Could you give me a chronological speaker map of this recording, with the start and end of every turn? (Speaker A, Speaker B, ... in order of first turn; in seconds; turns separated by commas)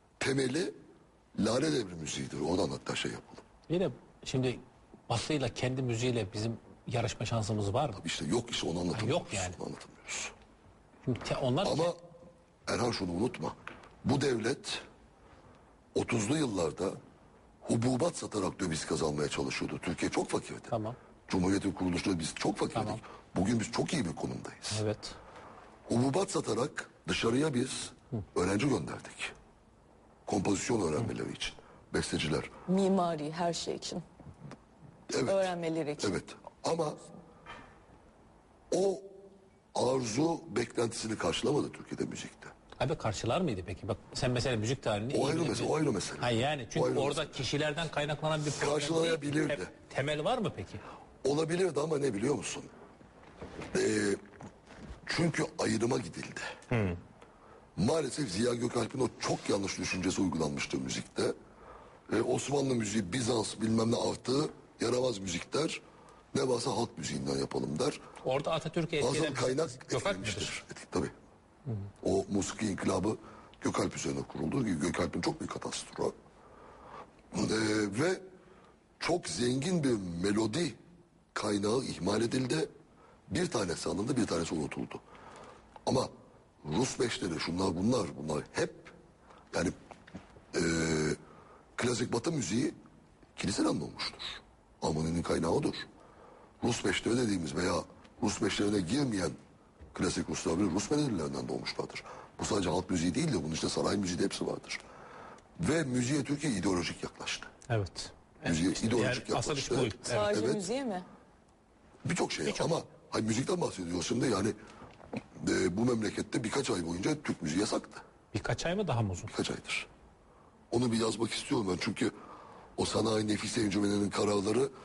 Speaker A: 0.2-0.7, Speaker A: 1.4-3.4, Speaker B: 3.7-8.0, Speaker A: 8.0-10.3, Speaker B: 8.9-9.6, Speaker B: 11.0-11.9, Speaker A: 11.6-12.0, Speaker A: 12.7-14.8, Speaker A: 15.9-17.0, Speaker A: 17.6-20.7, Speaker B: 20.7-21.0, Speaker A: 21.3-24.8, Speaker B: 22.7-23.0, Speaker B: 24.7-25.2, Speaker A: 25.9-29.3, Speaker A: 30.3-32.5, Speaker C: 32.7-34.0, Speaker A: 35.1-37.0, Speaker C: 35.2-36.1, Speaker A: 38.7-39.1, Speaker A: 39.7-42.5, Speaker B: 42.8-50.8, Speaker A: 45.1-47.4, Speaker A: 48.5-49.7, Speaker A: 51.2-52.7, Speaker A: 53.7-54.2, Speaker A: 55.0-56.5, Speaker B: 56.7-57.0, Speaker A: 57.8-61.3, Speaker A: 62.1-65.8, Speaker A: 66.3-68.0, Speaker B: 68.2-70.5, Speaker A: 69.0-71.1, Speaker A: 72.0-76.1, Speaker A: 77.3-78.2, Speaker A: 79.0-80.8, Speaker A: 81.3-82.7, Speaker A: 83.3-85.0, Speaker A: 85.8-86.1, Speaker A: 86.6-88.9, Speaker A: 90.5-91.2, Speaker A: 91.8-92.7, Speaker A: 93.4-95.9, Speaker A: 96.6-99.4, Speaker A: 99.9-104.8, Speaker A: 105.6-107.5, Speaker B: 107.7-110.3, Speaker A: 108.4-110.6, Speaker C: 110.0-111.1, Speaker A: 112.0-114.5, Speaker B: 112.5-112.8, Speaker A: 115.3-118.0, Speaker B: 118.3-119.3, Speaker A: 119.3-119.9, Speaker A: 120.7-122.1, Speaker A: 122.8-124.7